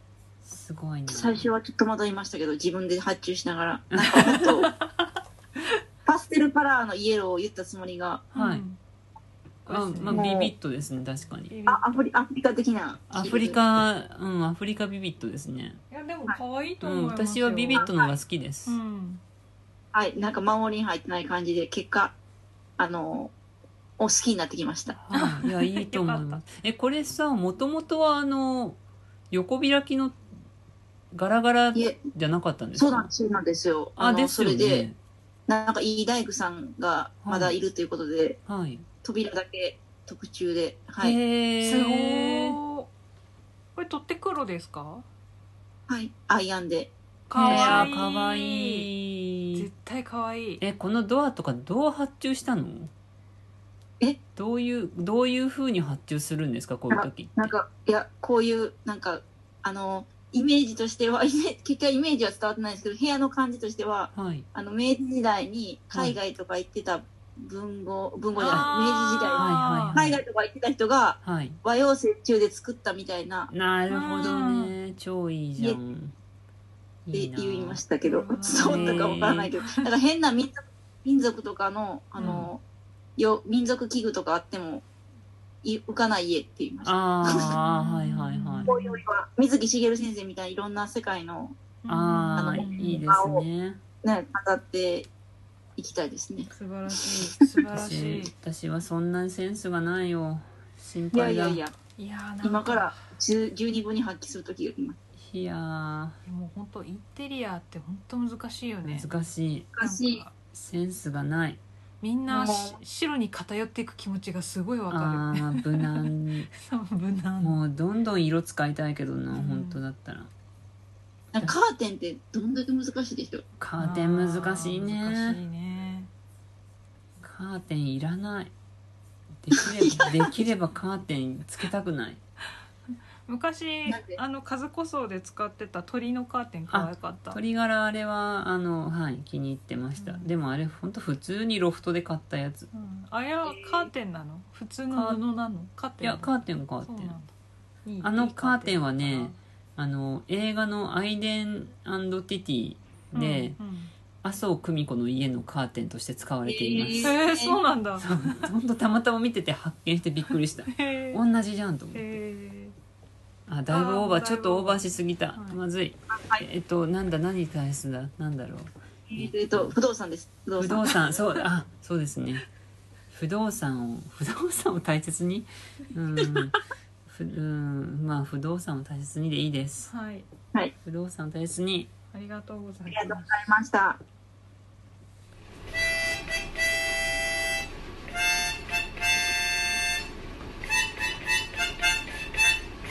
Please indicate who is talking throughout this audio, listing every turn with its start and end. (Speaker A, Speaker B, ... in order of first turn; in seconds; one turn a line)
Speaker A: 0.4-1.5
Speaker B: 1.1-4.7
Speaker A: 3.9-4.5
Speaker C: 4.2-5.7
Speaker B: 6.0-8.3
Speaker C: 8.3-8.8
Speaker A: 8.3-8.6
Speaker C: 9.7-10.3
Speaker A: 9.7-11.5
Speaker B: 10.1-10.5
Speaker C: 11.5-11.8
Speaker B: 11.7-13.6
Speaker A: 13.1-15.8
Speaker C: 15.9-17.9
Speaker A: 16.8-18.8
Speaker B: 17.7-18.1
Speaker C: 18.6-19.2
Speaker B: 19.9-22.1
Speaker B: 22.8-23.3
Speaker B: 24.0-25.0
Speaker A: 25.0-28.8
Speaker C: 25.1-26.4
Speaker A: 29.3-30.2
Speaker A: 31.1-33.1
Speaker B: 31.7-32.0
Speaker B: 32.7-34.9
Speaker A: 34.0-35.0
Speaker B: 35.5-38.4
Speaker A: 37.2-37.6
Speaker A: 38.5-38.9
Speaker B: 39.0-41.2
Speaker A: 41.0-42.6
Speaker C: 41.6-42.9
Speaker C: 43.8-45.0
Speaker B: 45.9-47.9
Speaker C: 47.3-48.9
Speaker A: 47.4-49.7
Speaker C: 49.5-50.6
Speaker A: 50.6-52.9
Speaker A: 54.4-57.5
Speaker B: 56.9-73.5
Speaker A: 64.1-64.5
Speaker A: 65.9-66.2
Speaker C: 68.3-70.0
Speaker A: 68.4-68.7
Speaker A: 69.3-70.2
Speaker A: 71.2-71.6
Speaker A: 73.5-76.1
Speaker C: 73.9-74.7
Speaker B: 74.2-74.5
Speaker A: 77.0-77.8
Speaker B: 77.1-82.6
Speaker C: 78.0-79.9
Speaker A: 78.5-79.5
Speaker C: 82.2-82.5
Speaker A: 82.2-82.5
Speaker B: 83.2-84.8
Speaker B: 85.6-87.5
Speaker A: 86.8-88.7
Speaker C: 87.2-89.0
Speaker B: 88.6-91.6
Speaker C: 91.8-93.0
Speaker A: 91.9-93.8
Speaker B: 92.3-93.4
Speaker B: 94.0-95.1
Speaker B: 95.8-96.5
Speaker C: 96.5-98.3
Speaker A: 97.7-101.6
Speaker B: 101.1-101.7
Speaker C: 102.0-103.0
Speaker B: 102.4-105.0
Speaker A: 105.2-106.2
Speaker C: 106.2-109.1
Speaker A: 108.8-109.7
Speaker B: 109.7-110.2
Speaker C: 109.8-110.3
Speaker A: 110.5-111.6
Speaker C: 112.0-117.6
Speaker B: 112.3-112.8
Speaker A: 114.9-116.5
Speaker A: 117.4-120.3
Speaker C: 119.3-119.8
Speaker B: 121.3-123.4
Speaker A: 123.6-125.4
Speaker C: 123.8-126.1
Speaker A: 127.2-128.5
Speaker A: 129.4-132.2
Speaker B: 129.6-130.1
Speaker C: 133.2-137.4
Speaker B: 133.9-134.2
Speaker A: 136.7-142.7
Speaker C: 139.9-140.3
Speaker C: 142.7-147.3
Speaker B: 143.4-143.9
Speaker A: 144.9-145.2
Speaker A: 146.0-147.2
Speaker C: 147.8-149.4
Speaker A: 148.0-153.6
Speaker C: 153.1-153.9
Speaker A: 154.2-157.2
Speaker B: 156.4-157.6
Speaker C: 156.9-158.5
Speaker A: 158.0-162.1
Speaker C: 160.7-161.2
Speaker C: 161.9-162.8
Speaker A: 163.5-169.8
Speaker C: 163.7-165.6
Speaker B: 166.1-166.4
Speaker B: 169.1-171.0
Speaker A: 170.6-172.4
Speaker A: 173.1-179.9
Speaker C: 179.9-180.3
Speaker A: 180.8-181.9
Speaker C: 182.1-183.4
Speaker B: 182.9-184.0